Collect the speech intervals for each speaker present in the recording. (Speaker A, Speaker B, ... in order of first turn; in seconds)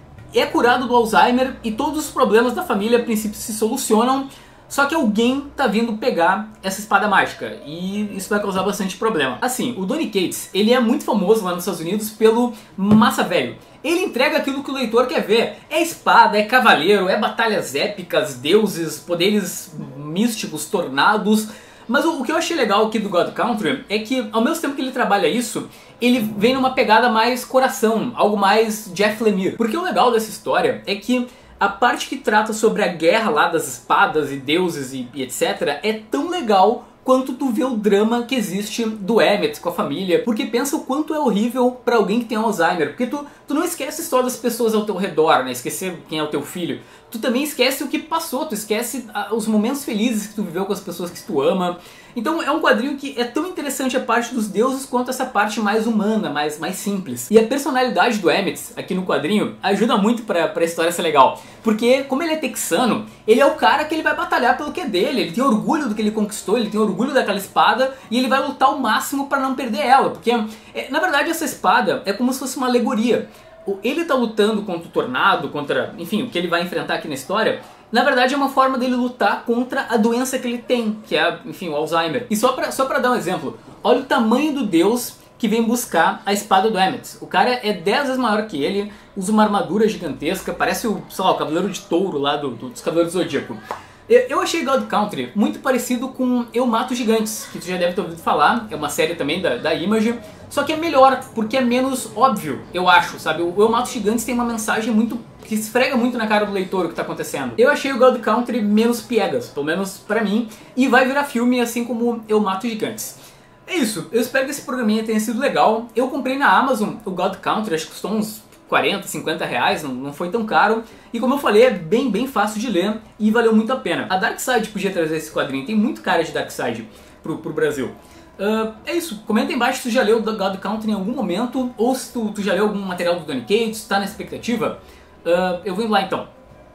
Speaker A: 0.3-136.3